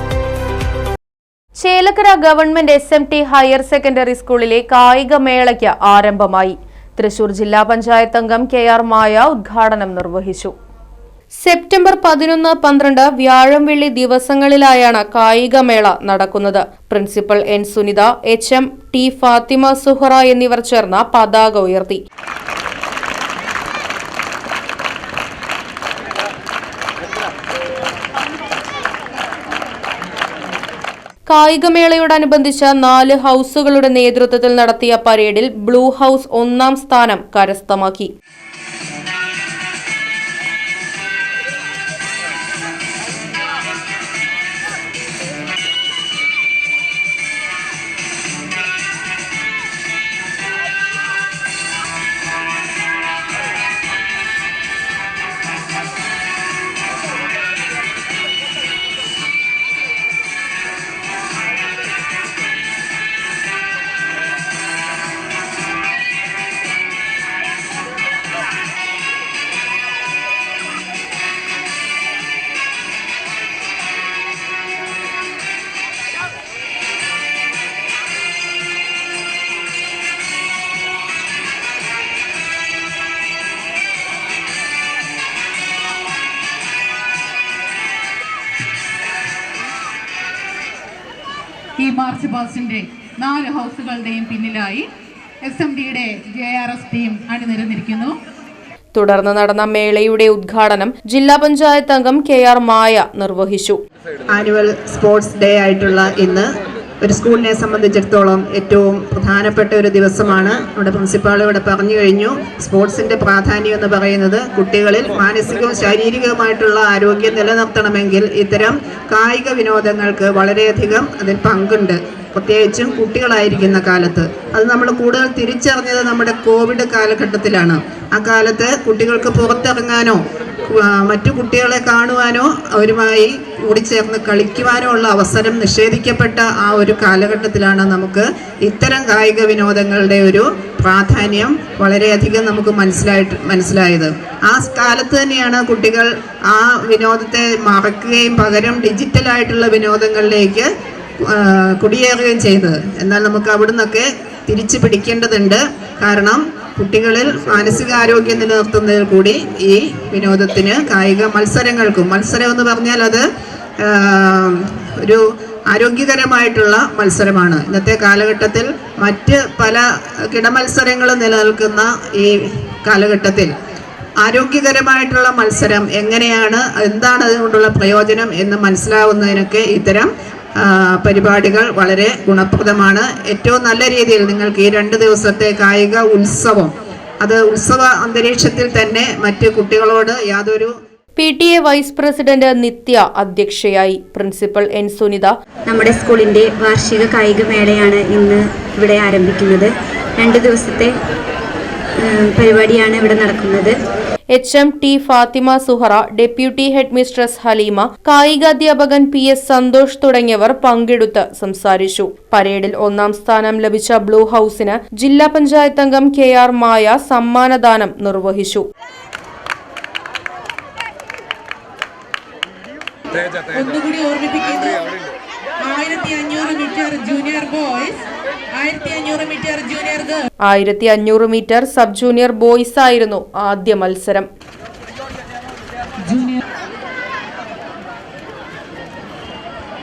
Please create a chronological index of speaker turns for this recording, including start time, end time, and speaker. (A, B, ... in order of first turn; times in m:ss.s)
0:01.5-0:10.5 A
0:11.4-0:22.0 A
0:31.3-0:38.1 A
1:31.8-1:34.9 B
1:35.4-1:38.2 B
1:38.9-1:43.8 A
1:44.3-1:46.5 C
1:47.0-2:30.7 C
2:31.2-2:43.2 C
2:43.8-2:53.5 C
2:54.2-3:10.7 C
3:11.2-3:15.3 A
3:15.7-3:20.9 D
3:22.0-3:23.8 D
3:24.3-3:38.6 A
3:43.4-3:44.9 B
3:45.6-3:50.3 B
3:50.4-3:54.3 A
3:56.0-3:56.4 B